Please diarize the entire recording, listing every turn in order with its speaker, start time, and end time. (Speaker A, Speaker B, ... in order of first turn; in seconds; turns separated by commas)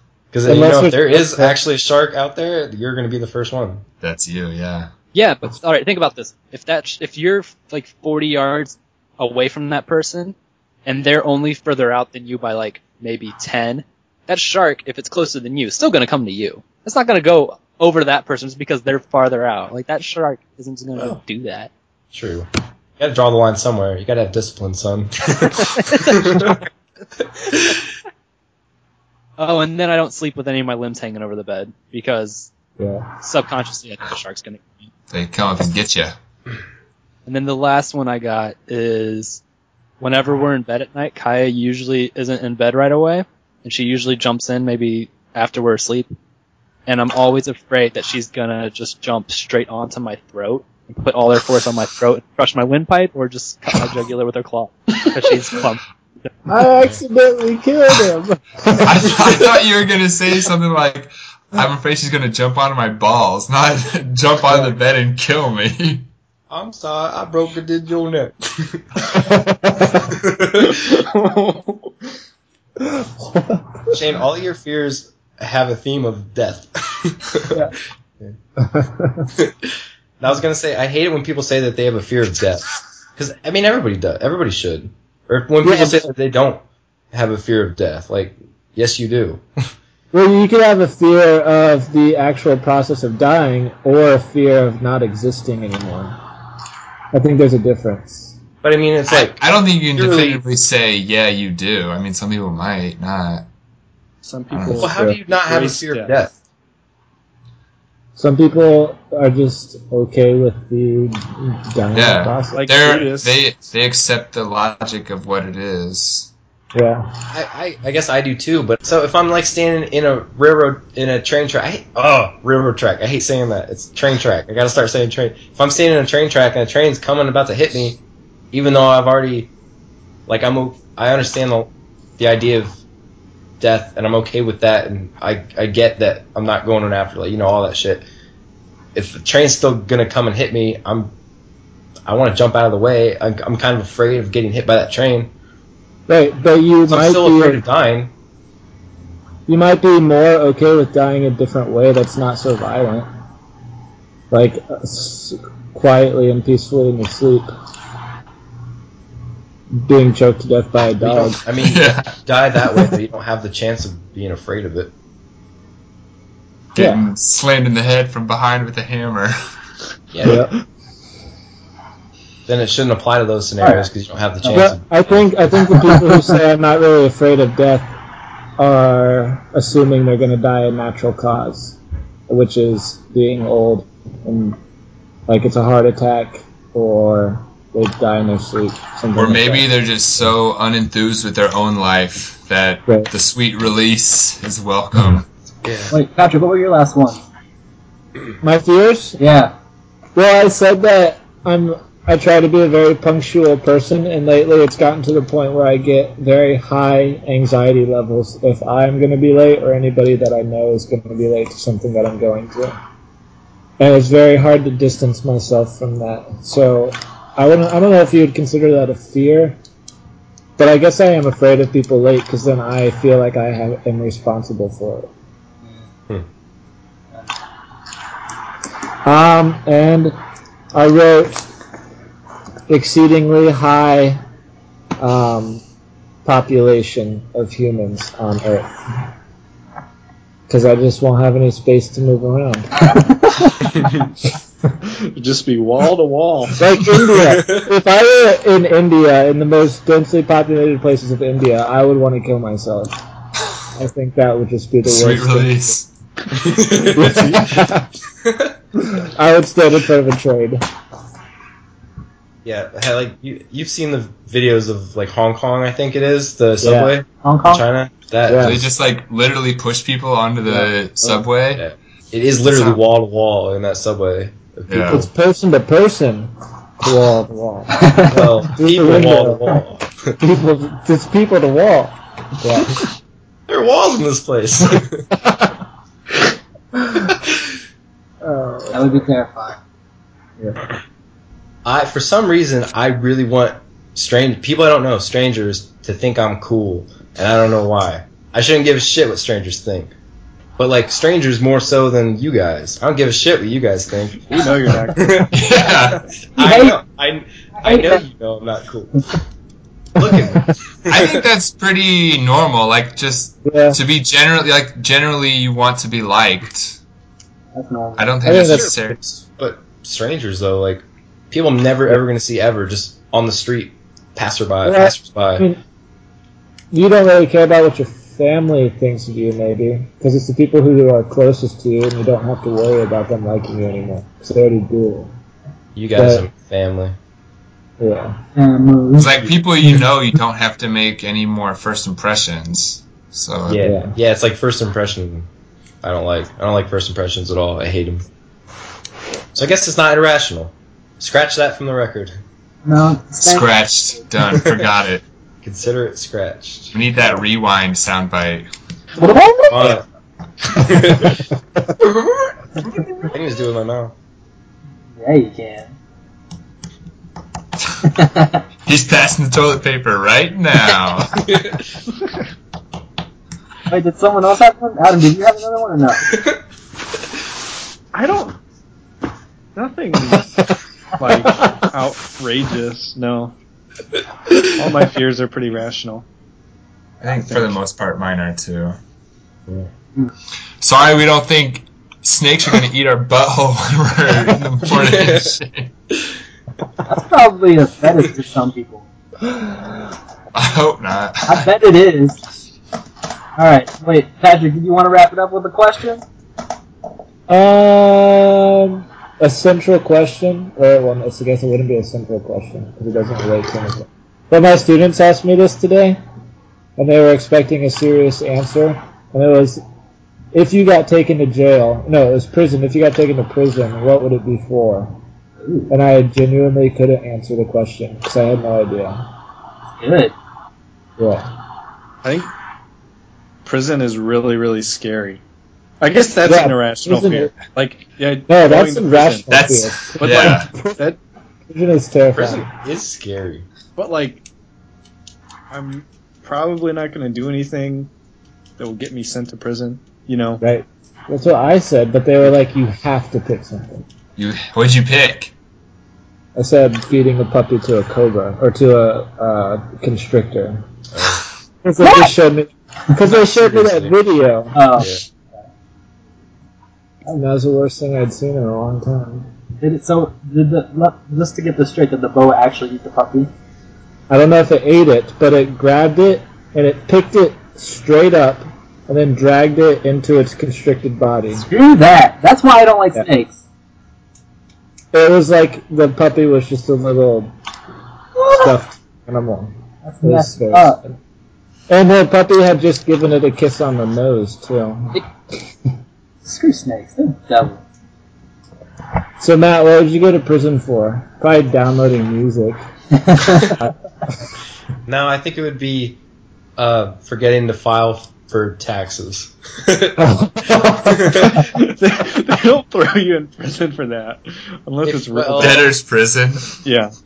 Speaker A: 0.3-3.8, Speaker B: 0.5-1.6, Speaker C: 4.0-4.9, Speaker D: 5.1-10.3, Speaker D: 10.8-21.7, Speaker A: 22.1-22.5, Speaker A: 23.0-26.6, Speaker D: 25.7-26.6, Speaker A: 27.2-27.8, Speaker D: 29.4-32.5, Speaker B: 32.8-33.1, Speaker D: 33.2-34.9, Speaker C: 35.1-36.1, Speaker D: 37.2-39.4, Speaker D: 40.0-46.1, Speaker D: 46.9-56.3, Speaker B: 56.5-59.2, Speaker C: 58.8-66.0, Speaker A: 66.5-68.8, Speaker B: 69.2-70.0, Speaker A: 70.0-71.0, Speaker E: 70.6-71.9, Speaker B: 72.9-73.8, Speaker A: 73.9-77.6, Speaker B: 78.6-79.3, Speaker A: 79.4-89.4, Speaker B: 85.6-86.1, Speaker B: 90.1-96.2, Speaker B: 97.1-98.4, Speaker A: 98.6-100.4, Speaker C: 99.1-103.5, Speaker E: 104.2-106.2, Speaker C: 104.5-104.9, Speaker A: 104.8-106.4, Speaker B: 104.8-105.2, Speaker B: 108.2-112.7, Speaker C: 111.9-116.3, Speaker E: 112.5-113.4, Speaker B: 116.7-117.1, Speaker A: 117.3-128.0, Speaker A: 128.5-129.5, Speaker A: 130.3-132.8, Speaker A: 133.6-138.1, Speaker A: 138.9-141.1, Speaker A: 142.1-145.3, Speaker B: 146.1-147.6, Speaker A: 146.9-148.1, Speaker B: 149.5-153.1, Speaker B: 154.3-157.5, Speaker B: 159.7-161.4, Speaker A: 161.0-164.9, Speaker C: 161.6-162.1, Speaker C: 166.7-169.3, Speaker B: 166.8-167.0, Speaker A: 170.1-170.5, Speaker B: 170.2-170.5, Speaker A: 172.4-175.4, Speaker F: 173.6-173.9, Speaker F: 174.4-174.7, Speaker B: 174.5-177.9, Speaker F: 175.7-176.3, Speaker B: 178.6-181.8, Speaker B: 182.3-184.6, Speaker B: 185.3-189.7, Speaker C: 189.1-195.3, Speaker A: 195.6-195.9, Speaker F: 195.9-197.2, Speaker B: 198.4-199.2, Speaker F: 199.2-199.5, Speaker B: 200.2-212.8, Speaker B: 213.8-219.6, Speaker B: 220.6-225.1, Speaker B: 229.0-230.2, Speaker B: 230.7-231.5, Speaker B: 232.7-234.2, Speaker B: 235.0-235.6, Speaker B: 236.2-238.7, Speaker B: 240.5-243.0, Speaker F: 243.0-243.5, Speaker E: 244.8-246.6, Speaker B: 246.6-253.0, Speaker A: 247.2-247.7, Speaker B: 253.7-255.7, Speaker C: 254.8-255.9, Speaker A: 256.4-257.3, Speaker B: 256.8-257.9, Speaker A: 258.2-258.5, Speaker B: 258.8-260.6, Speaker A: 262.4-268.6, Speaker B: 266.6-266.9, Speaker F: 267.2-267.6, Speaker B: 268.3-268.6, Speaker C: 268.4-271.6, Speaker A: 271.5-275.1, Speaker C: 272.5-272.8, Speaker C: 274.7-275.0, Speaker B: 274.9-279.6, Speaker F: 277.8-278.2, Speaker A: 278.1-280.1, Speaker B: 280.2-282.8, Speaker A: 283.5-285.1, Speaker B: 288.2-289.1, Speaker F: 288.7-289.6, Speaker A: 291.6-299.9, Speaker A: 300.6-305.6, Speaker E: 304.3-305.3, Speaker C: 305.3-306.1, Speaker F: 306.4-306.8, Speaker A: 306.4-309.1, Speaker F: 307.6-308.0, Speaker A: 310.0-311.2, Speaker C: 310.9-316.8, Speaker B: 313.4-313.8, Speaker F: 317.5-318.4, Speaker C: 318.0-319.0, Speaker B: 318.2-318.7, Speaker A: 318.5-325.4, Speaker B: 324.6-325.6, Speaker B: 326.7-335.1, Speaker A: 335.7-336.9, Speaker B: 335.9-336.2, Speaker B: 337.8-338.2, Speaker F: 338.3-339.1, Speaker C: 338.9-343.7, Speaker A: 343.5-345.3, Speaker B: 343.6-343.9, Speaker A: 345.8-348.1, Speaker A: 349.3-352.2, Speaker F: 352.6-353.5, Speaker C: 353.2-355.0, Speaker A: 355.4-356.8, Speaker C: 356.7-358.5, Speaker F: 359.0-359.8, Speaker A: 359.5-359.8, Speaker A: 360.5-361.2, Speaker A: 361.8-362.3, Speaker F: 362.6-363.1, Speaker A: 363.1-363.9, Speaker F: 364.9-365.8, Speaker F: 367.8-368.4, Speaker C: 368.6-371.3, Speaker A: 371.2-371.6, Speaker F: 373.7-376.1, Speaker E: 377.9-378.4, Speaker E: 379.5-380.4, Speaker E: 381.0-383.3, Speaker E: 384.6-386.1, Speaker C: 387.0-388.8, Speaker C: 390.6-395.7, Speaker A: 394.6-395.3, Speaker F: 396.9-398.8, Speaker B: 399.3-399.7, Speaker C: 400.3-401.5, Speaker F: 401.2-402.2, Speaker F: 403.4-406.0, Speaker B: 407.3-416.0, Speaker B: 416.8-419.6, Speaker B: 420.3-425.0, Speaker F: 425.4-425.7, Speaker B: 425.7-429.1, Speaker F: 429.8-430.1, Speaker B: 431.0-431.3, Speaker E: 432.0-432.3, Speaker E: 433.4-435.2, Speaker E: 435.8-439.2, Speaker B: 436.2-437.4, Speaker B: 438.3-440.8, Speaker C: 439.3-440.5, Speaker E: 440.0-441.0, Speaker B: 441.5-442.5, Speaker A: 442.1-443.4, Speaker E: 443.8-444.2, Speaker E: 445.5-447.9, Speaker E: 448.6-450.4, Speaker B: 450.4-453.9, Speaker C: 454.1-455.3, Speaker B: 456.4-460.6, Speaker A: 460.9-461.2, Speaker B: 461.6-464.6, Speaker F: 461.8-462.1, Speaker A: 463.1-464.0, Speaker F: 464.5-464.9, Speaker B: 467.1-469.3, Speaker F: 469.6-473.3, Speaker B: 474.1-481.4, Speaker F: 481.3-483.4, Speaker B: 484.9-487.3, Speaker F: 488.2-488.5, Speaker B: 488.3-490.9, Speaker F: 489.8-490.8, Speaker B: 491.7-495.0, Speaker F: 496.2-497.6, Speaker B: 499.2-502.6, Speaker F: 502.9-503.6, Speaker B: 503.4-503.7, Speaker A: 504.9-506.0, Speaker A: 506.6-510.0, Speaker B: 510.0-511.1, Speaker A: 510.8-511.5, Speaker E: 511.1-515.7, Speaker A: 514.8-515.7, Speaker C: 515.4-516.6, Speaker E: 516.6-516.9